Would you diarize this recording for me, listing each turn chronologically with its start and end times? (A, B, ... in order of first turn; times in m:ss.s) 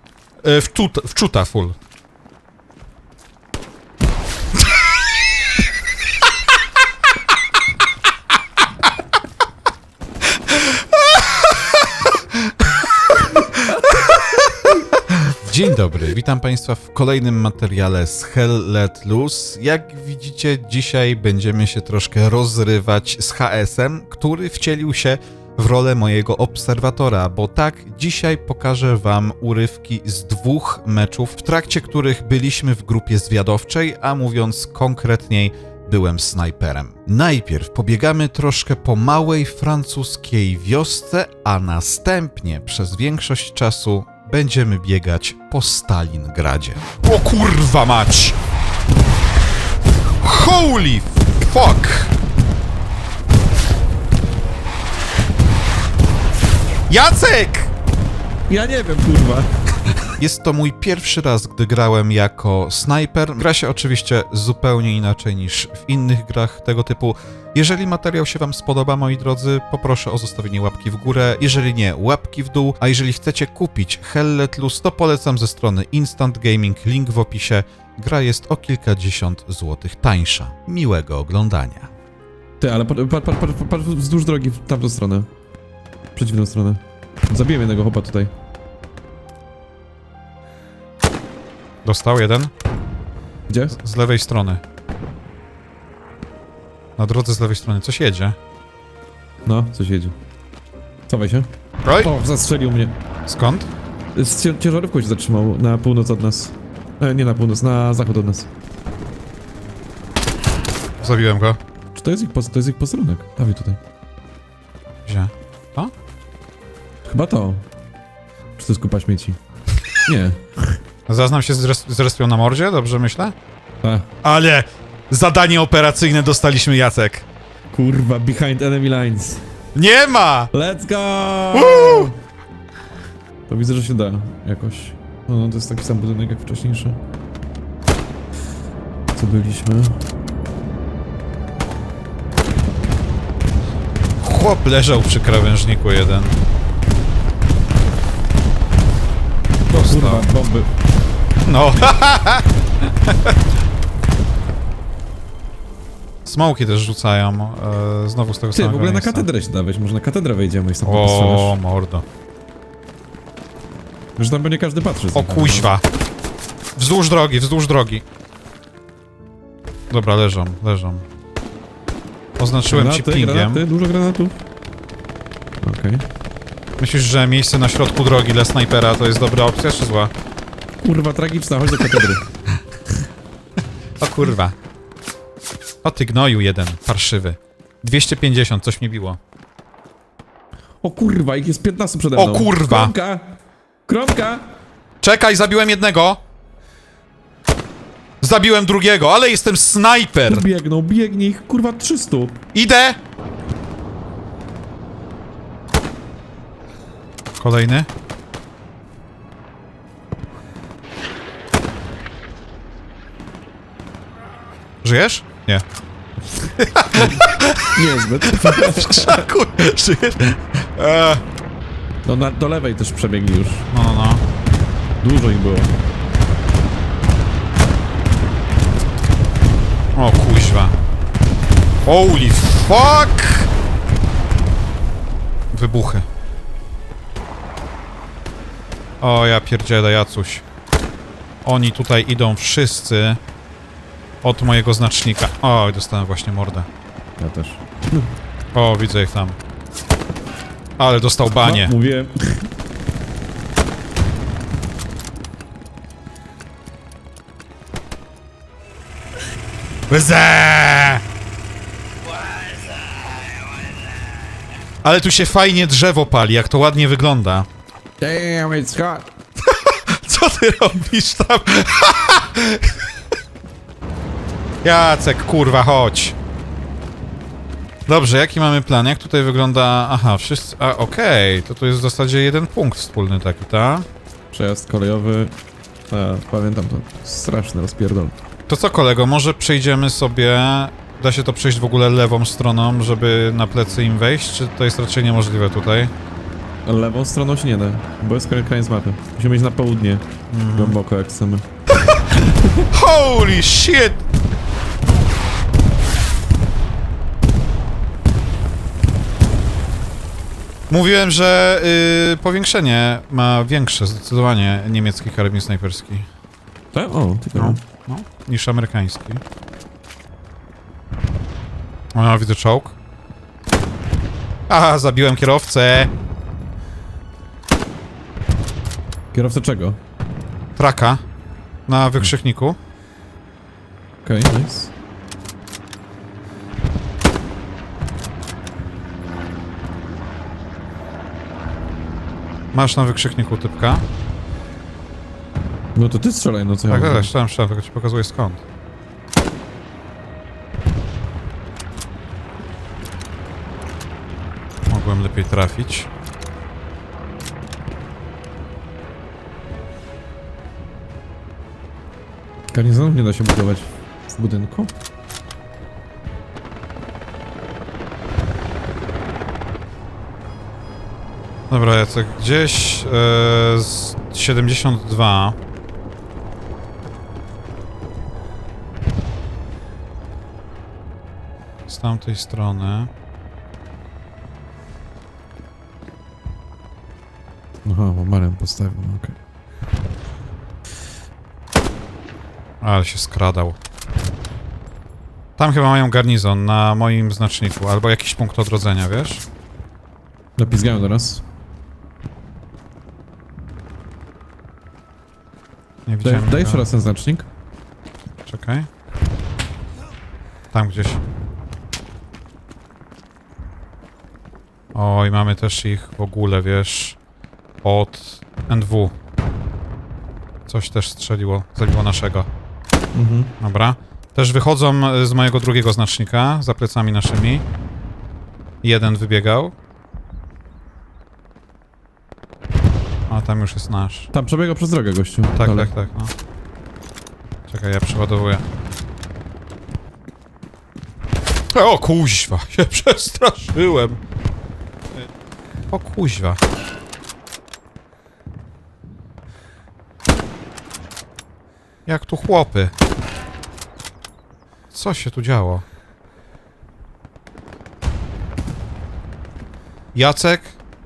0:00.4-0:01.8 A
0:11.2-0:11.5 A
0:15.3-0:48.4 A
0:50.2-0:52.1 A
0:56.9-0:57.7 A
0:58.5-0:59.5 B
1:00.2-1:21.9 A
1:22.6-1:25.3 B
1:26.1-1:28.3 B
1:31.8-1:32.5 A
1:33.5-1:33.8 B
1:33.7-1:34.6 A
1:37.0-1:38.4 A
1:39.4-1:40.1 B
1:41.1-1:43.0 B
1:41.8-1:42.1 A
1:43.2-1:43.7 A
1:44.1-1:48.5 B
1:51.0-1:51.6 A
1:51.9-1:53.8 B
1:55.1-1:55.9 A
1:57.0-1:57.6 B
1:58.6-1:59.4 B
2:00.0-2:00.8 B
2:01.1-2:03.3 A
2:03.8-2:04.1 B
2:04.2-2:07.3 A
2:07.7-2:09.4 B
2:09.7-2:10.5 A
2:10.5-2:12.2 B
2:11.5-2:12.1 A
2:13.5-2:17.0 B
2:19.1-2:20.0 B
2:24.2-2:26.4 A
2:29.7-2:30.3 A
2:29.7-2:30.7 B
2:31.4-2:32.5 A
2:33.0-2:33.3 A
2:36.2-2:39.3 A
2:38.5-2:41.6 B
2:40.8-2:42.0 A
2:44.2-2:45.7 B
2:45.1-2:45.8 A
2:46.8-2:48.0 A
2:49.9-2:51.0 A
2:52.4-2:53.6 A
2:52.7-2:54.4 B
2:55.6-2:56.0 B
2:56.8-3:00.1 A
3:00.8-3:02.2 B
3:04.0-3:04.5 A
3:05.8-3:09.2 A
3:10.8-3:14.4 B
3:12.1-3:12.9 A
3:15.0-3:16.2 A
3:18.2-3:20.4 A
3:20.2-3:22.4 B
3:22.5-3:23.0 A
3:27.4-3:27.9 A
3:34.8-3:35.6 A
3:36.6-3:37.7 A
3:37.7-3:39.2 B
3:38.2-3:41.2 A
3:42.0-3:43.7 B
3:43.7-3:44.2 A
3:45.0-3:45.7 B
3:50.0-3:50.7 A
3:51.8-3:53.5 A
3:55.5-3:56.0 A
3:59.0-4:00.4 A
4:01.4-4:03.2 A
4:04.2-4:06.7 A
4:07.2-4:08.1 B
4:08.5-4:09.4 A
4:10.8-4:11.7 A
4:11.3-4:12.5 B
4:19.9-4:21.0 A
4:24.8-4:27.5 A
4:28.0-4:29.1 B
4:29.5-4:32.7 A
4:34.6-4:36.2 A
4:37.9-4:43.8 A
4:44.3-4:45.3 B
4:45.9-4:48.1 B
4:48.5-4:55.9 A
4:56.6-5:01.4 B
5:00.3-5:00.8 A
5:02.7-5:04.0 A
5:10.7-5:16.0 A
5:16.7-5:17.6 B
5:17.4-5:19.2 A
5:21.9-5:22.8 A
5:24.5-5:25.9 A
5:29.1-5:29.8 B
5:30.6-5:31.0 A
5:31.7-5:32.6 A
5:34.0-5:34.7 B
5:42.5-5:43.8 A
5:45.7-5:47.1 B
5:46.7-5:48.4 A
5:54.7-5:55.9 A
6:02.5-6:04.7 B
6:11.5-6:15.4 A
6:21.7-6:22.9 A
6:27.6-6:29.1 B
6:32.6-6:33.6 A
6:35.4-6:39.2 A
6:40.4-6:41.2 B
6:45.8-6:46.7 A
6:46.0-6:47.3 B
6:48.2-6:48.7 A
6:50.5-6:51.0 A
6:54.7-6:57.0 A
6:57.6-6:58.9 A
7:00.5-7:02.3 A
7:02.9-7:03.3 B
7:03.4-7:07.4 A
7:08.6-7:09.5 A
7:13.1-7:14.1 A
7:14.1-7:15.7 B
7:15.4-7:16.1 A
7:17.5-7:18.4 A
7:21.5-7:24.0 A
7:25.7-7:26.4 A
7:31.8-7:32.7 A
7:34.7-7:35.6 A
7:39.9-7:40.6 A